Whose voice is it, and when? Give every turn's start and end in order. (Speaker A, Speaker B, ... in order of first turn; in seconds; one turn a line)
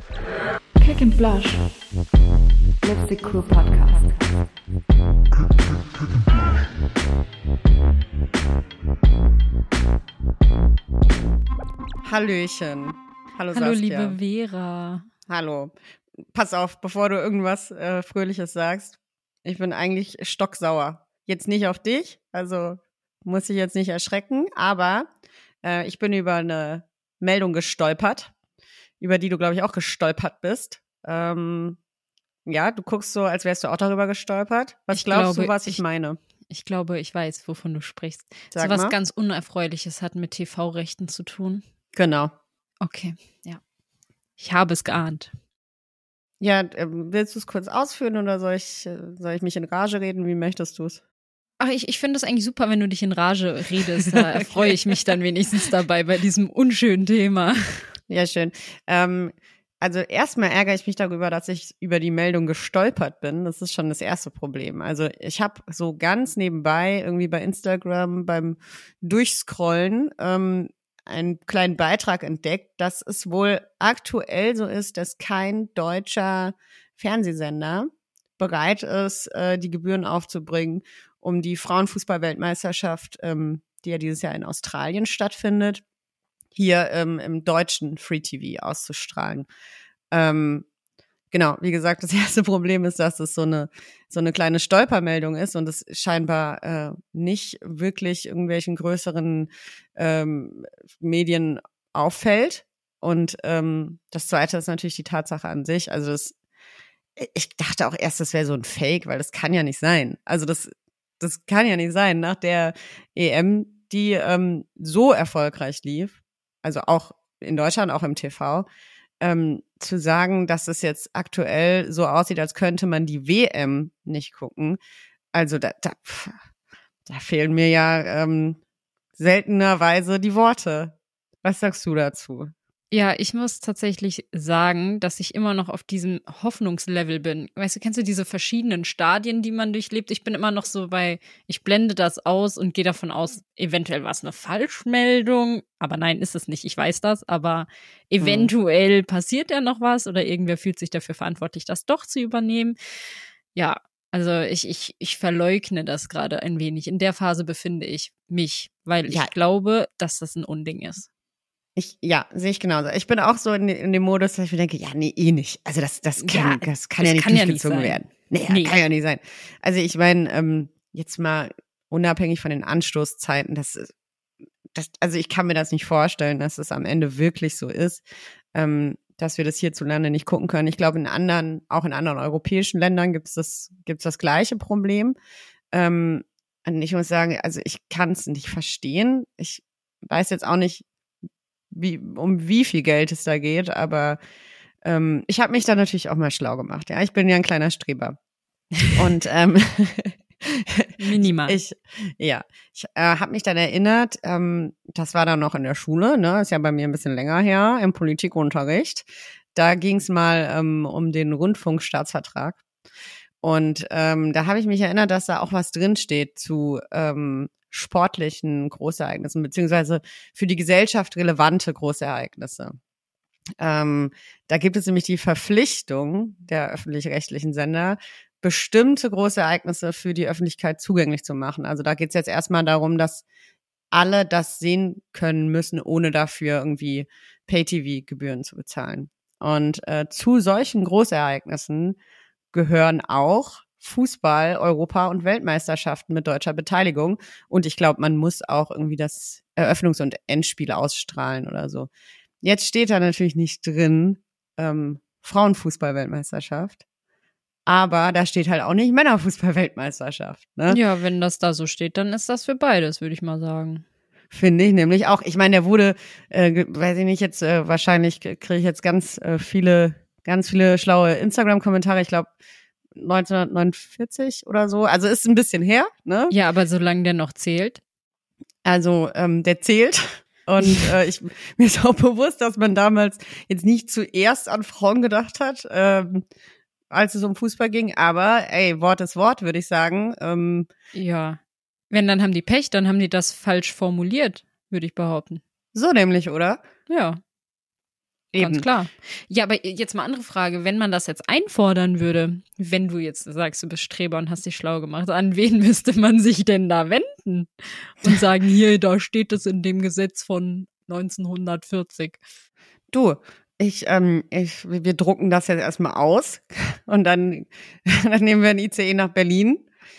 Speaker A: 0.8-1.8
Speaker A: 2.8-4.4
Speaker B: 12.0-14.2
Speaker C: 13.5-15.1
Speaker B: 15.3-15.7
Speaker B: 16.3-25.1
Speaker B: 25.6-28.3
Speaker B: 29.0-31.8
Speaker B: 32.5-36.2
Speaker C: 34.9-35.8
Speaker C: 36.5-41.6
Speaker B: 38.5-39.0
Speaker B: 41.9-42.3
Speaker C: 42.8-43.6
Speaker C: 44.4-45.3
Speaker B: 46.4-51.0
Speaker C: 51.6-57.8
Speaker B: 54.1-55.1
Speaker B: 58.1-85.8
Speaker B: 86.5-89.5
Speaker B: 90.1-90.7
Speaker B: 91.3-106.3
Speaker B: 107.2-118.7
Speaker B: 119.2-124.8
Speaker B: 125.3-126.4
Speaker B: 127.1-128.6
Speaker B: 129.2-132.5
Speaker C: 132.9-152.8
Speaker B: 148.2-148.5
Speaker C: 153.6-161.1
Speaker B: 161.8-173.9
Speaker C: 166.2-168.8
Speaker B: 174.7-185.2
Speaker B: 185.7-190.8
Speaker B: 191.7-194.2
Speaker B: 194.8-198.2
Speaker B: 198.9-212.6
Speaker C: 201.0-201.6
Speaker B: 213.4-222.8
Speaker B: 223.6-233.2
Speaker B: 233.9-242.0
Speaker B: 242.5-251.9
Speaker B: 252.4-256.8
Speaker B: 257.7-260.8
Speaker C: 260.7-263.8
Speaker B: 264.3-272.3
Speaker B: 272.9-276.3
Speaker C: 276.3-277.8
Speaker B: 278.6-286.3
Speaker B: 286.9-290.7
Speaker C: 290.9-291.4
Speaker C: 291.9-295.4
Speaker B: 295.7-296.6
Speaker C: 296.9-297.2
Speaker B: 298.3-298.7
Speaker C: 298.4-312.2
Speaker B: 312.9-319.7